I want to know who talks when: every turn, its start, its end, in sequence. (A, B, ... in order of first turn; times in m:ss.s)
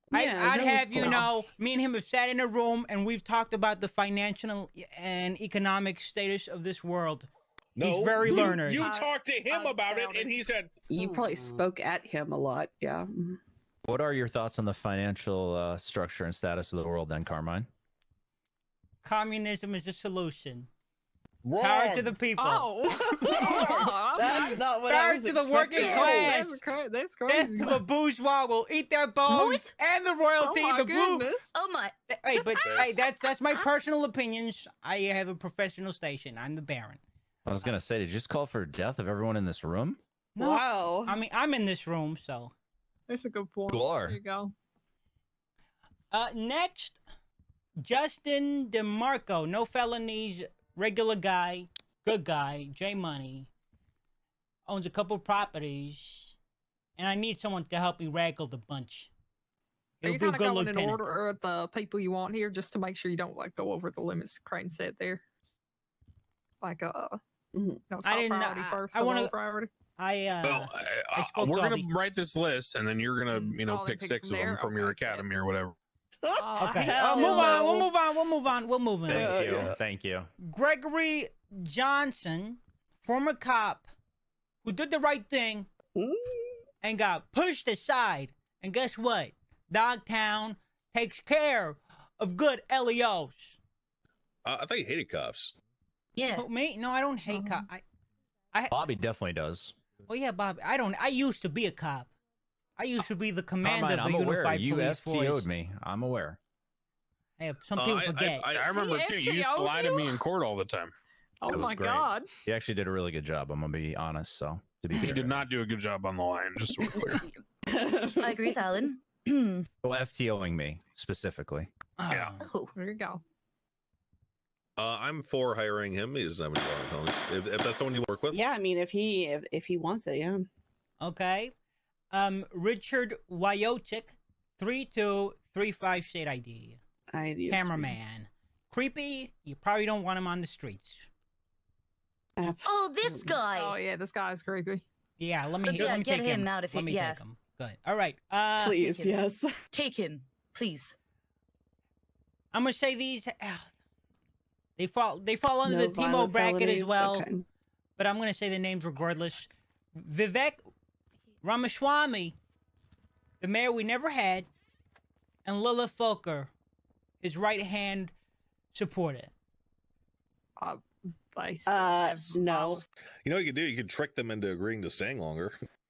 0:00.1-0:01.3 A
0:00.1-0:07.3 B
0:07.8-0:10.8 C
0:07.8-0:08.9 B
0:08.2-0:08.6 A
0:08.7-0:10.4 D
0:10.9-0:13.4 A
0:13.8-0:17.7 E
0:19.0-0:20.7 B
0:21.6-0:22.7 B
0:21.6-0:22.1 C
0:22.4-0:24.7 D
0:22.9-0:26.4 A
0:23.2-0:23.8 B
0:24.8-0:26.6 B
0:25.7-0:27.8 D
0:27.3-0:31.3 B
0:29.3-0:29.7 F
0:30.4-0:31.5 D
0:31.5-0:32.8 F
0:32.1-0:37.0 B
0:32.6-0:32.9 C
0:37.4-0:40.0 E
0:40.3-0:42.5 B
0:40.4-0:41.2 A
0:43.1-0:44.5 D
0:43.7-0:44.2 E
0:46.1-0:47.0 B
0:47.8-0:53.5 B
0:54.6-0:56.4 B
0:57.0-0:59.1 B
1:00.0-1:01.1 B
1:00.0-1:05.2 D
1:06.6-1:07.2 D
1:07.5-1:07.8 A
1:07.9-1:09.7 D
1:08.0-1:09.3 B
1:10.0-1:11.9 B
1:10.4-1:15.8 G
1:13.3-1:15.3 D
1:16.2-1:17.9 A
1:16.4-1:17.8 D
1:16.6-1:19.6 B
1:19.1-1:19.8 A
1:19.1-1:20.3 E
1:20.4-1:23.9 B
1:24.6-1:25.7 B
1:26.0-1:26.6 A
1:26.8-1:33.6 B
1:34.4-1:35.5 C
1:36.2-1:36.4 F
1:36.3-1:37.8 B
1:38.5-1:38.8 B
1:38.7-1:39.8 E
1:40.0-1:42.1 B
1:42.8-1:45.5 B
1:43.6-1:46.4 E
1:47.4-1:48.5 B
1:47.8-1:48.8 C
1:48.5-1:50.9 G
1:48.6-1:50.2 D
1:51.4-1:52.3 D
1:51.5-1:55.4 E
1:55.0-1:57.3 G
1:57.7-1:58.6 A
1:58.2-1:59.7 F
1:59.8-2:01.7 E
2:02.0-2:02.4 B
2:02.1-2:02.3 G
2:02.4-2:02.7 F
2:02.7-2:03.2 D
2:04.8-2:08.4 C
2:08.3-2:10.5 A
2:11.0-2:11.5 B
2:12.1-2:16.8 B
2:17.1-2:18.0 A
2:17.5-2:21.1 B
2:22.4-2:23.4 A
2:22.6-2:23.7 F
2:23.5-2:24.8 D
2:25.2-2:28.8 B
2:25.6-2:27.2 F
2:28.6-2:29.5 A
2:28.8-2:29.1 F
2:29.7-2:31.0 F
2:32.5-2:33.7 B
2:34.8-2:37.3 B
2:35.6-2:37.4 A
2:38.0-2:40.6 B
2:41.4-2:42.4 B
2:43.4-2:44.5 B
2:45.4-2:46.5 B
2:47.2-2:48.1 B
2:48.7-2:49.3 B
2:51.3-2:52.8 D
2:51.6-2:52.8 A
2:53.2-2:55.5 C